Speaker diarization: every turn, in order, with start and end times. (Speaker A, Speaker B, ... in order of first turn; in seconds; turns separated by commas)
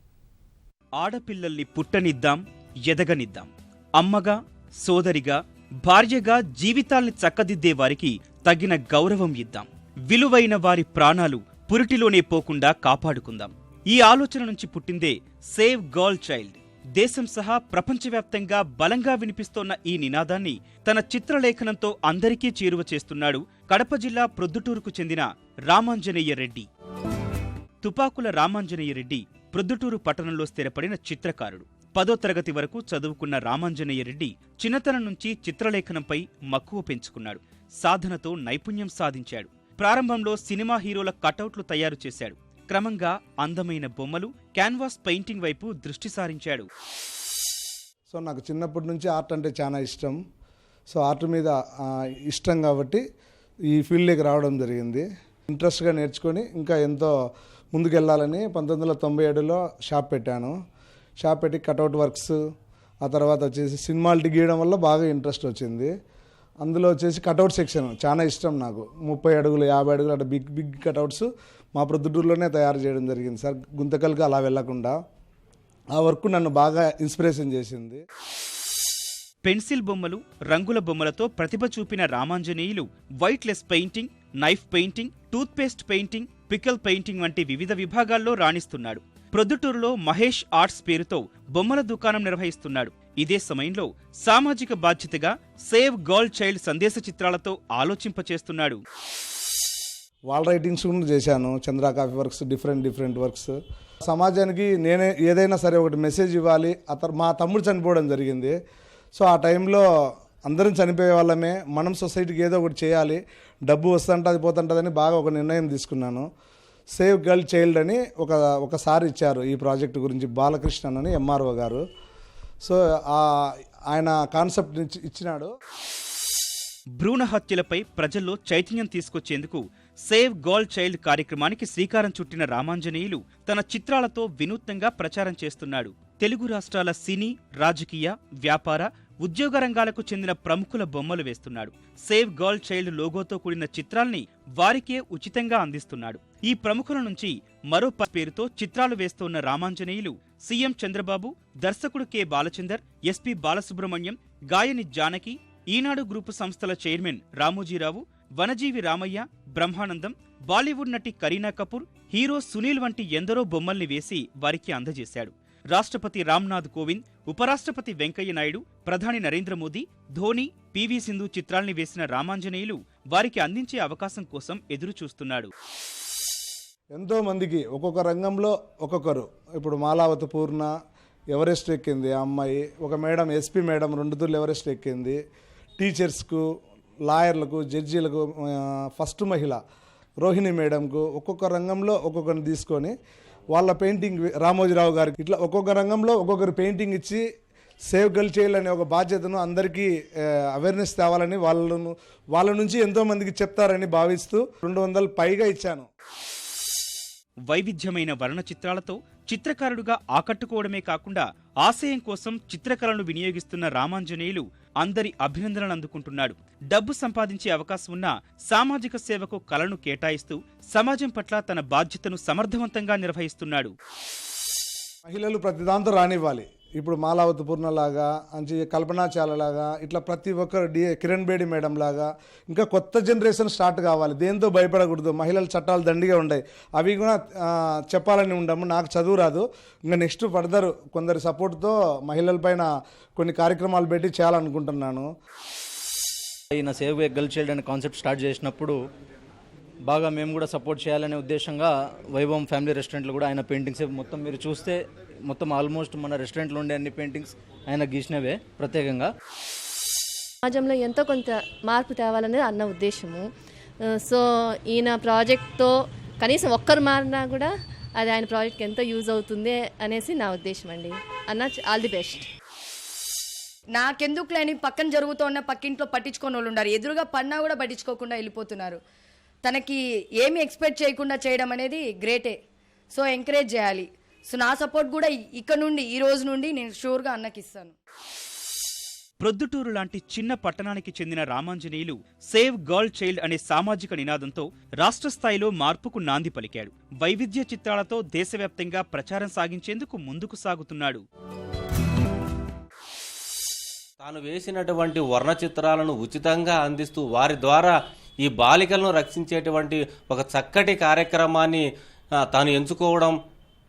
Speaker A: 1.0-26.7, Speaker A: 27.8-46.7, Speaker B: 48.1-50.2, Speaker B: 50.9-53.0, Speaker B: 53.7-57.1, Speaker B: 57.7-60.5, Speaker B: 61.2-62.4, Speaker B: 63.0-65.9, Speaker B: 66.6-75.0, Speaker B: 76.0-78.0, Speaker A: 79.4-98.8, Speaker B: 100.3-103.5, Speaker B: 104.1-108.5, Speaker B: 109.2-109.8, Speaker B: 110.4-116.2, Speaker B: 117.0-121.8, Speaker B: 122.6-125.5, Speaker A: 127.0-175.5, Speaker B: 176.9-180.7, Speaker B: 181.3-185.2, Speaker B: 185.8-186.5, Speaker B: 187.1-189.6, Speaker B: 190.2-192.9, Speaker B: 193.5-197.2, Speaker B: 197.9-205.9, Speaker A: 207.5-223.7, Speaker B: 225.1-245.1, Speaker C: 246.5-248.8, Speaker C: 249.8-259.1, Speaker D: 260.8-263.2, Speaker D: 264.8-265.7, Speaker D: 266.2-267.5, Speaker D: 268.0-272.3, Speaker E: 273.8-278.7, Speaker E: 279.5-279.8, Speaker E: 280.3-282.3, Speaker E: 283.0-283.8, Speaker E: 284.3-287.7, Speaker A: 289.2-301.0, Speaker F: 304.0-313.2